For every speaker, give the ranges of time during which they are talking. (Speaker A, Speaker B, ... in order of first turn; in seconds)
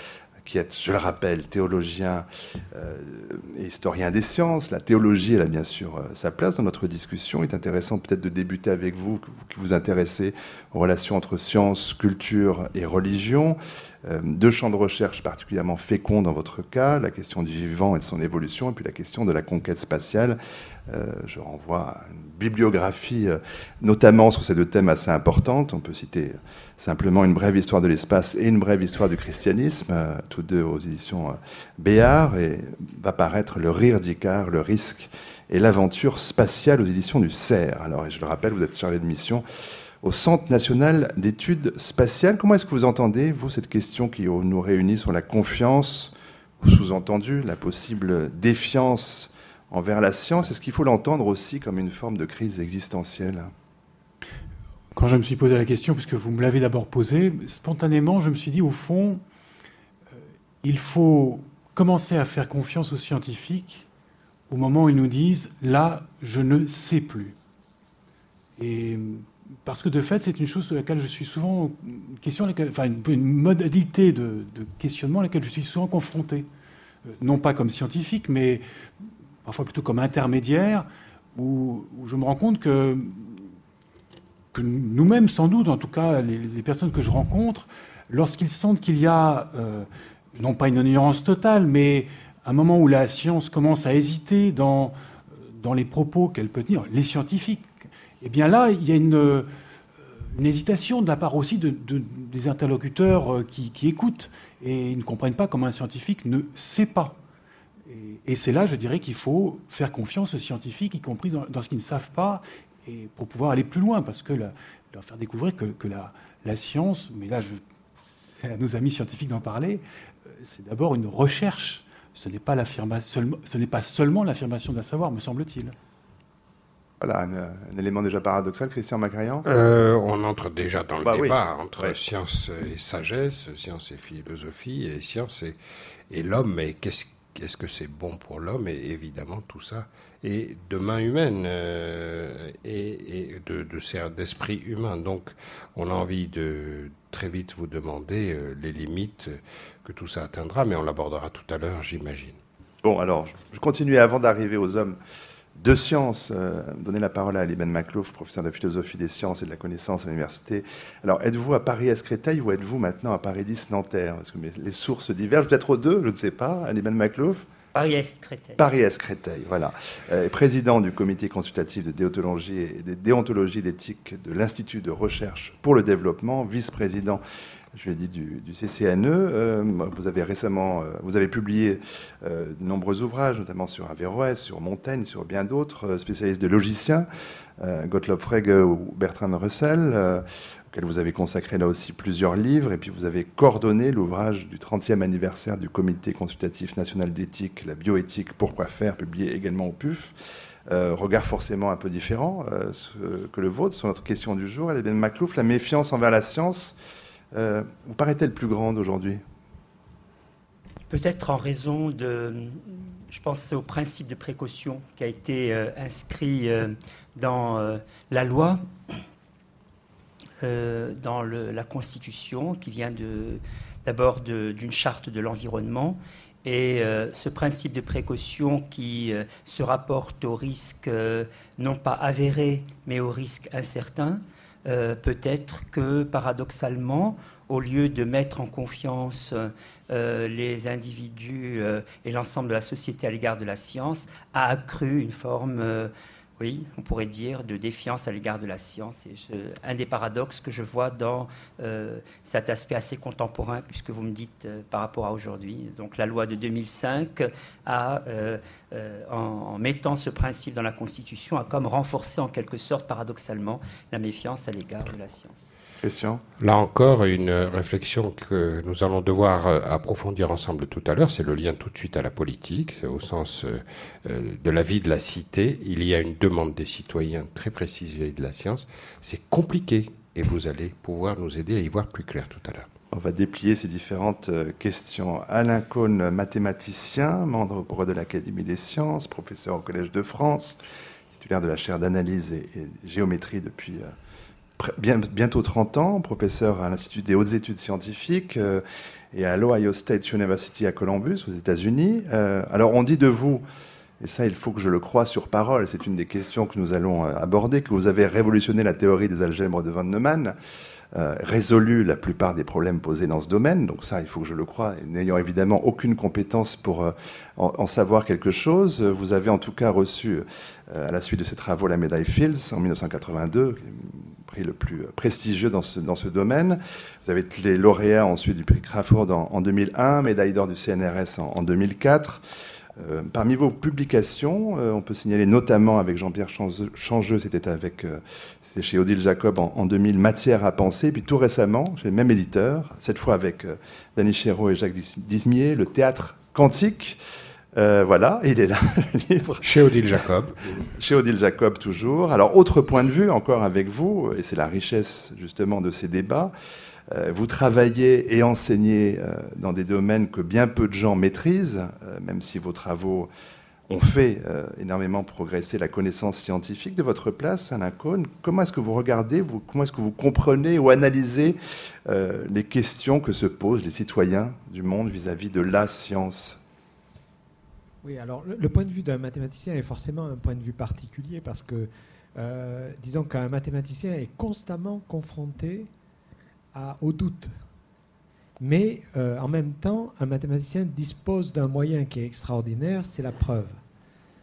Speaker A: 0.4-20.4, 20.9-39.4, 40.0-53.5, 127.0-129.4, 131.0-131.9, 152.8-155.0, 155.6-167.5, 168.6-177.2, 177.7-187.1, 187.6-200.1, 200.7-206.8, 207.3-209.2, 265.8-266.2, 282.9-290.6, 291.1-293.9, 294.6-303.4, 304.0-310.4, 310.9-332.2, 332.8-347.0, 347.5-349.7, 350.5-356.3, 356.9-363.1, 363.7-376.4
Speaker B: 54.9-59.2, 60.1-63.9, 64.5-67.3, 68.6-76.5, 77.1-78.6, 79.4-83.5, 84.5-99.5, 100.2-107.2, 107.8-125.7
Speaker C: 129.4-135.6, 136.1-152.4, 266.4-282.7, 349.4-350.6
Speaker D: 167.7-168.6, 210.9-218.6, 220.4-265.5
Speaker E: 377.8-385.7, 386.5-387.3, 388.4-393.6